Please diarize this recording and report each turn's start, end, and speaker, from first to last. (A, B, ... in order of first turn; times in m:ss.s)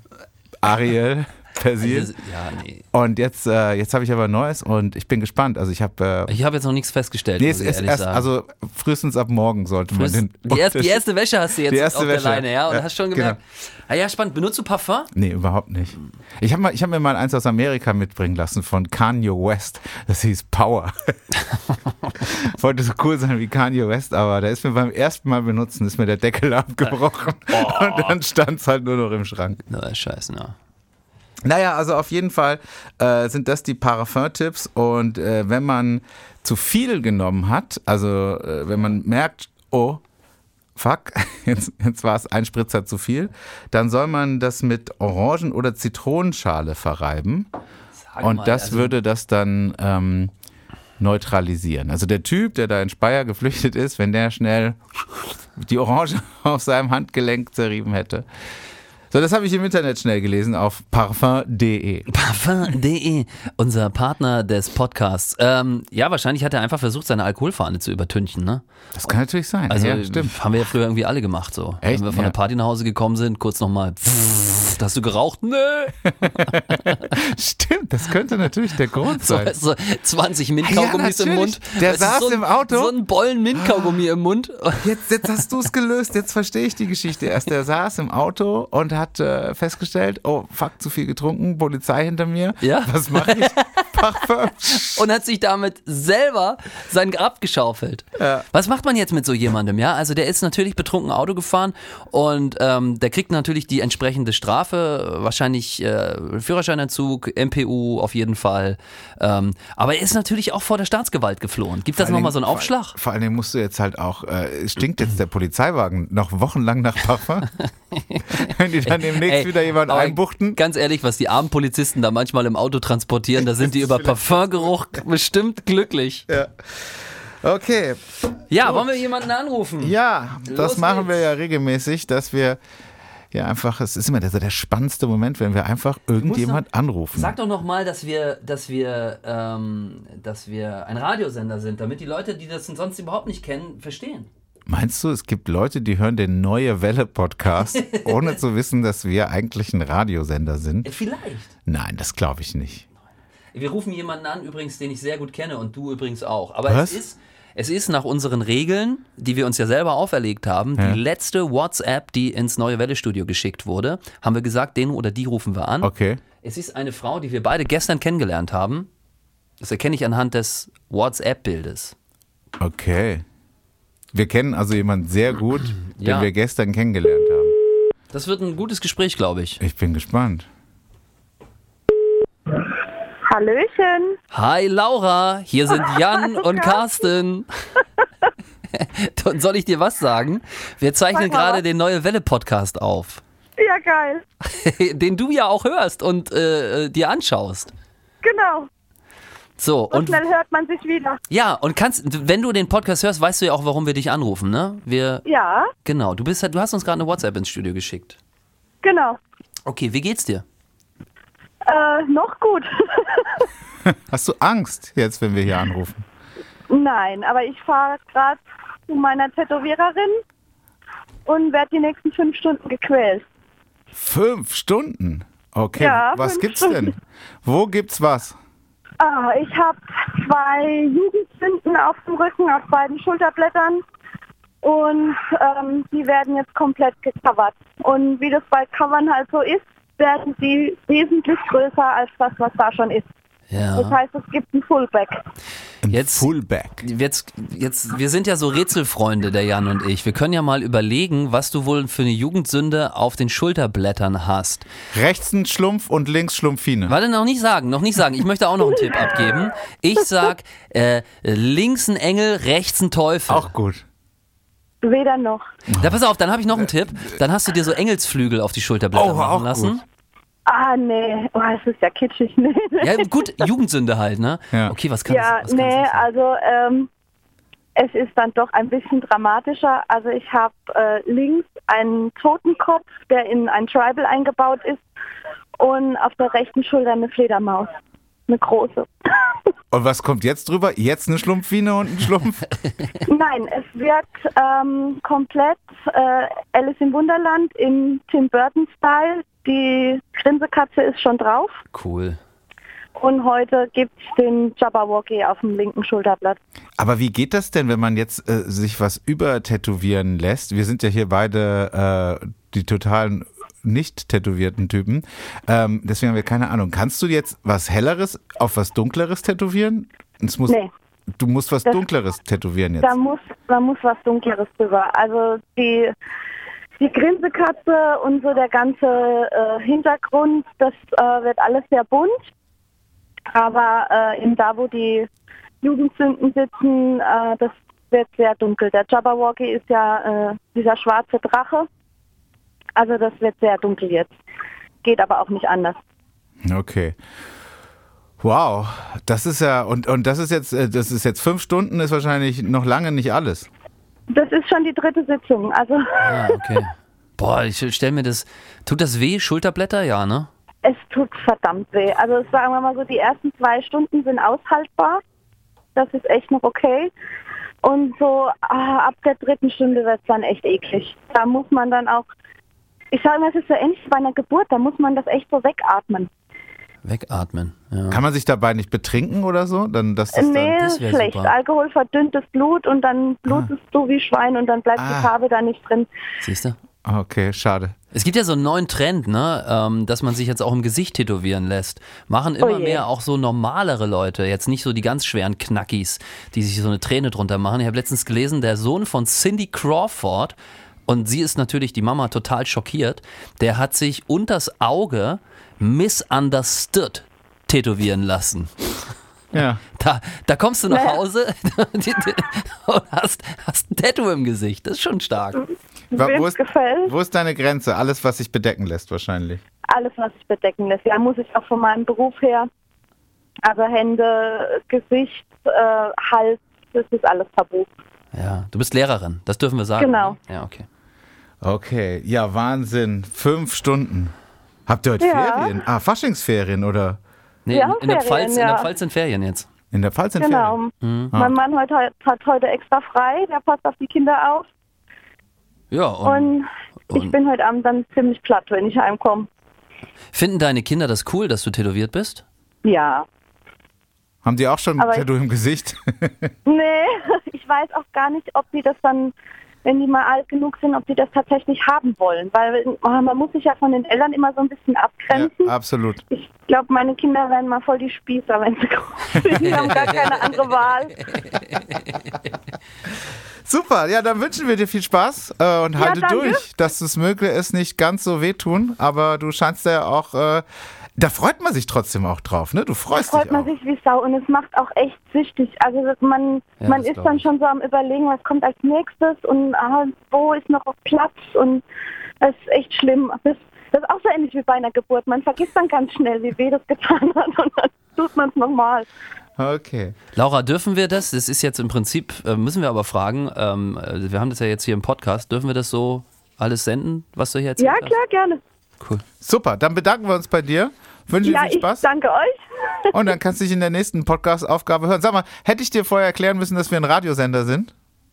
0:00.6-0:02.1 A
0:01.8-0:02.8 B
0:02.9-0:06.4 A
0:06.3-0:08.3 B
0:07.4-0:11.0 A
0:09.9-0:15.1 B
0:11.6-0:13.4 A
0:15.1-0:21.2 A
0:22.2-0:29.6 A
0:27.6-0:28.1 B
0:29.7-0:30.6 B
0:31.4-0:40.0 A
0:40.8-0:47.5 A
0:48.0-0:49.0 B
0:48.2-0:50.3 A
0:51.0-0:54.8 A
0:55.6-0:58.3 A
0:59.1-1:02.1 A
1:02.1-1:08.6 B
1:09.0-1:10.4 A
1:09.7-1:17.2 B
1:11.8-1:12.4 A
1:16.2-1:19.6 A
1:19.2-1:24.9 B
1:20.6-1:22.9 A
1:23.5-1:23.9 A
1:24.8-1:35.0 A
1:32.6-1:34.0 B
1:34.7-1:53.0 B
1:38.2-1:38.4 A
1:51.9-1:57.5 A
1:57.6-2:06.3 B
1:58.3-2:00.6 A
2:03.5-2:04.7 A
2:06.3-2:08.9 A
2:08.5-2:11.2 B
2:09.8-2:12.6 A
2:13.3-2:17.4 A
2:16.2-2:16.6 B
2:17.1-2:24.3 B
2:24.7-2:30.9 A
2:27.8-2:28.3 B
2:30.8-2:31.5 B
2:31.7-2:32.9 A
2:33.5-2:45.9 B
2:36.7-2:37.0 A
2:45.8-2:46.2 A
2:46.4-2:48.9 B
2:49.6-2:52.0 B
2:52.6-2:53.2 A
2:54.1-2:57.6 A
2:55.8-2:56.3 B
2:58.1-2:59.6 B
2:59.6-3:00.5 A
3:03.3-3:04.2 C
3:04.3-3:07.5 B
3:05.8-3:06.8 C
3:08.7-3:13.2 B
3:11.1-3:11.6 C
3:13.6-3:14.2 C
3:14.4-3:17.7 B
3:18.2-3:18.7 C
3:19.6-3:20.2 B
3:19.9-3:21.2 C
3:21.3-3:25.2 B
3:25.3-3:25.7 C
3:25.8-3:28.2 B
3:28.8-3:29.2 C
3:29.7-3:30.4 B
3:31.6-3:33.5 C
3:33.9-3:36.0 A
3:36.7-3:40.2 C
3:41.3-3:43.2 C
3:44.0-3:48.4 A
3:45.8-3:46.9 C
3:49.0-3:53.8 C
3:54.6-4:03.1 C
4:03.5-4:04.0 B
4:03.8-4:05.2 C
4:05.8-4:06.8 A
4:05.9-4:06.3 B
4:06.8-4:14.7 B
4:14.9-4:17.0 A
4:16.9-4:23.5 B
4:23.3-4:23.8 A
4:24.8-4:25.4 C
4:25.7-4:29.8 B
4:26.6-4:27.1 A
4:28.9-4:29.8 A
4:30.5-4:33.5 C
4:32.8-4:36.0 B
4:35.1-4:36.9 C
4:37.8-4:44.8 C
4:45.6-4:47.7 C
4:48.3-4:48.9 C
4:49.7-4:52.4 A
4:53.1-5:01.6 C
5:01.7-5:02.2 B
5:03.0-5:06.4 C
5:06.8-5:20.6 A
5:21.2-5:23.0 A
5:22.8-5:25.9 C
5:26.8-5:32.2 C
5:33.3-5:35.1 C
5:35.6-5:41.7 C
5:42.8-5:44.1 C
5:44.8-5:45.8 C
5:46.4-5:47.0 A
5:48.2-5:53.5 A
5:54.1-5:56.6 C
5:56.0-6:00.3 B
6:00.6-6:05.0 C
6:05.8-6:06.9 C
6:07.6-6:12.1 C
6:12.9-6:16.1 C
6:16.8-6:18.0 B
6:17.9-6:20.6 A
6:20.1-6:25.9 C
6:20.5-6:21.3 B
6:24.8-6:25.1 A
6:26.2-6:26.6 B
6:26.8-6:27.8 A
6:27.9-6:40.4 B
6:32.4-6:32.8 C
6:40.9-6:48.9 B
6:49.3-6:49.6 A
6:49.7-6:55.4 B
6:50.7-6:51.0 C
6:55.4-6:56.9 C
6:56.0-6:59.4 A
6:59.7-7:02.5 C
7:03.4-7:07.7 C
7:08.1-7:10.7 B
7:09.8-7:10.2 C
7:11.4-7:14.1 A
7:14.7-7:17.0 A
7:15.0-7:15.6 C
7:17.5-7:19.5 B
7:17.5-7:18.7 C
7:19.7-7:20.6 A
7:20.2-7:24.5 C
7:20.8-7:21.2 B
7:25.7-7:26.3 B
7:26.0-7:29.3 C
7:30.1-7:32.2 B
7:32.6-7:33.1 C
7:34.2-7:36.3 A
7:34.8-7:35.0 C
7:36.5-7:45.5 C
7:45.1-7:46.0 A
7:46.1-7:51.0 C
7:49.3-7:50.4 B
7:51.0-7:52.1 B
7:53.4-8:00.4 A
7:55.8-7:56.4 C
8:01.0-8:03.5 A
8:03.0-8:11.6 C
8:06.6-8:07.2 B
8:12.2-8:18.9 C
8:19.4-8:20.0 A
8:20.2-8:28.0 B
8:27.6-8:28.4 C
8:29.2-8:31.8 A
8:31.2-8:32.9 C
8:32.9-8:37.7 A